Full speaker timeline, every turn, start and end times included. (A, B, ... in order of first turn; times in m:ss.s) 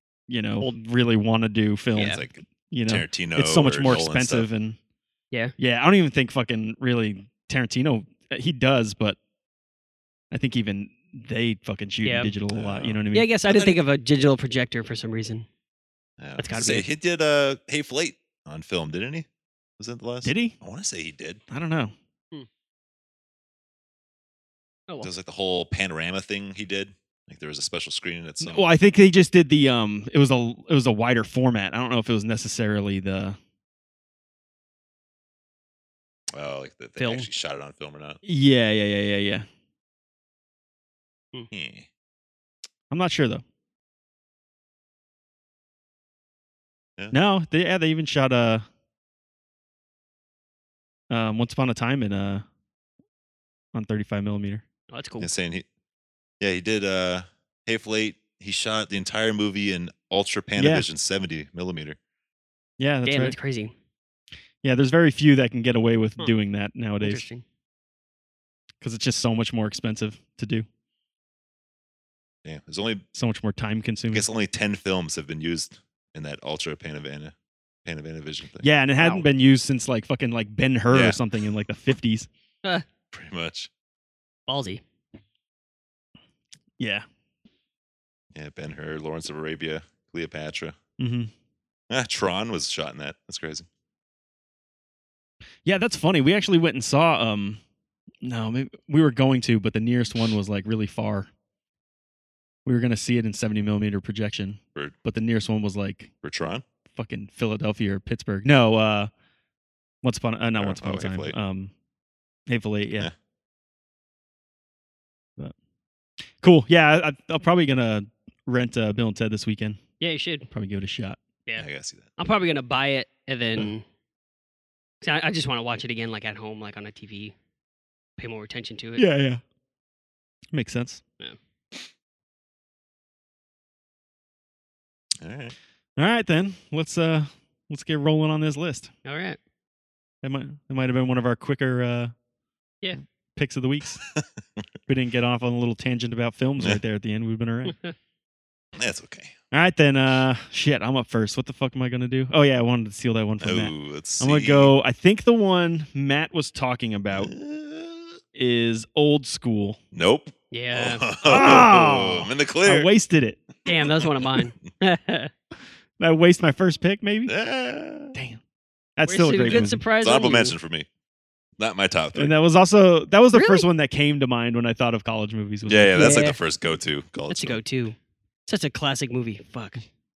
0:00.3-0:04.8 A
0:01.9-0:04.5 B
0:02.0-0:02.2 C
0:05.6-0:09.2 A
0:10.3-0:13.3 A
0:12.0-0:12.3 C
0:12.5-0:13.8 B
0:13.1-0:15.5 C
0:16.2-0:19.3 B
0:16.4-0:16.8 C
0:19.8-0:21.4 B
0:20.2-0:20.6 A
0:21.5-0:21.9 A
0:25.0-0:28.7 B
0:28.4-0:33.4 A
0:36.3-0:38.2 B
0:37.0-0:37.3 C
0:38.2-0:39.5 A
0:41.5-0:41.9 B
0:42.9-0:43.4 A
0:47.1-0:48.6 A
0:51.1-0:52.4 A
0:53.7-0:54.6 A
0:54.9-0:55.3 C
0:55.2-0:55.7 B
0:56.4-1:02.0 B
1:00.6-1:00.9 A
1:02.8-1:03.4 A
1:03.0-1:03.7 C
1:04.6-1:07.2 A
1:07.0-1:07.4 C
1:08.8-1:10.7 A
1:12.4-1:13.0 B
1:13.1-1:14.3 A
1:14.1-1:17.3 B
1:17.8-1:18.7 B
1:18.6-1:22.3 A
1:19.0-1:19.2 C
1:20.9-1:21.2 B
1:23.1-1:23.7 B
1:24.5-1:24.8 C
1:26.8-1:27.0 A
1:28.4-1:30.8 B
1:31.0-1:31.3 A
1:31.9-1:33.7 B
1:35.6-1:37.6 A
1:38.2-1:41.3 A
1:42.6-1:46.1 A
1:46.2-1:46.6 B
1:47.0-1:49.1 A
1:50.0-1:51.7 A
1:50.6-1:51.4 B
1:52.5-1:53.1 A
1:56.4-1:59.8 A
2:00.0-2:00.5 C
2:00.5-2:01.2 A
2:01.6-2:02.1 B
2:02.2-2:03.8 C
2:05.0-2:07.3 C
2:08.2-2:09.0 C
2:09.0-2:09.4 A
2:10.5-2:11.0 A
2:15.2-2:15.6 B
2:16.0-2:18.9 A
2:19.0-2:19.4 C
2:20.2-2:22.1 A
2:23.4-2:24.0 A
2:24.9-2:27.8 A
2:27.7-2:27.9 C
2:28.8-2:29.4 B
2:29.5-2:37.3 A
2:33.4-2:34.7 B
2:37.1-2:38.2 B
2:38.4-2:39.8 A
2:39.9-2:42.9 B
2:40.5-2:41.0 C
2:41.2-2:43.4 A
2:43.6-2:45.3 C
2:44.0-2:44.4 B
2:46.0-2:47.3 A
2:47.3-2:48.2 B
2:49.0-2:49.8 A
2:49.1-2:50.6 C
2:49.4-2:50.9 B
2:51.6-2:52.3 B
2:52.2-2:56.3 A
2:53.3-2:53.7 C
2:55.7-2:57.6 B
2:55.9-2:56.4 C
2:57.3-2:59.8 C